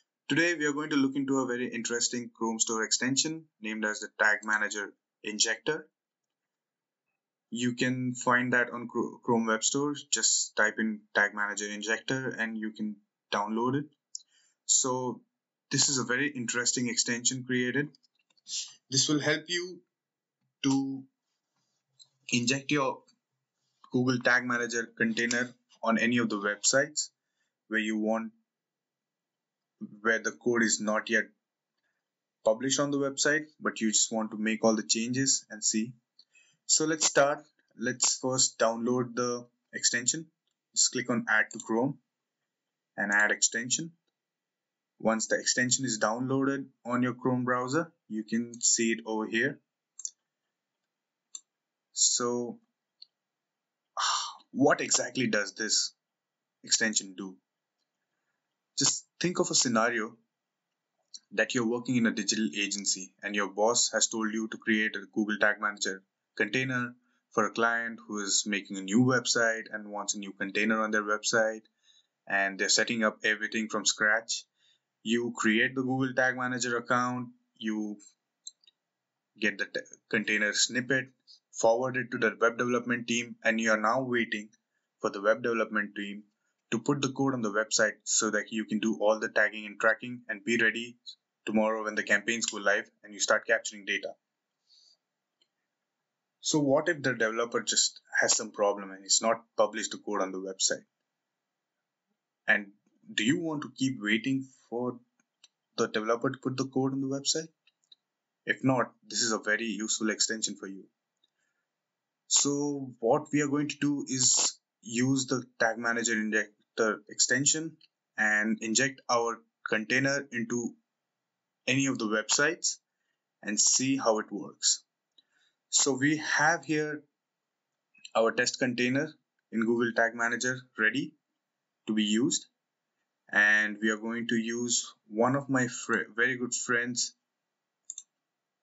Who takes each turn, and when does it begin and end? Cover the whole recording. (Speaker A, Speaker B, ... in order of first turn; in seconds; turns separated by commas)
Speaker A: 0.3-5.9, Speaker A: 7.5-13.9, Speaker A: 14.7-17.9, Speaker A: 18.9-19.8, Speaker A: 20.6-21.1, Speaker A: 22.3-23.1, Speaker A: 23.9-27.1, Speaker A: 27.7-28.4, Speaker A: 29.8-31.3, Speaker A: 32.4-36.0, Speaker A: 36.7-42.0, Speaker A: 43.0-44.0, Speaker A: 45.0-49.6, Speaker A: 51.9-52.6, Speaker A: 54.0-56.0, Speaker A: 56.6-57.4, Speaker A: 58.8-60.2, Speaker A: 61.3-71.7, Speaker A: 72.3-74.5, Speaker A: 75.0-78.0, Speaker A: 79.4-94.2, Speaker A: 96.4-100.9, Speaker A: 102.5-105.0, Speaker A: 105.8-107.5, Speaker A: 108.5-110.9, Speaker A: 112.3-120.8, Speaker A: 121.7-122.8, Speaker A: 123.4-124.8, Speaker A: 125.7-127.0, Speaker A: 128.2-131.2, Speaker A: 131.9-132.5, Speaker A: 133.3-137.2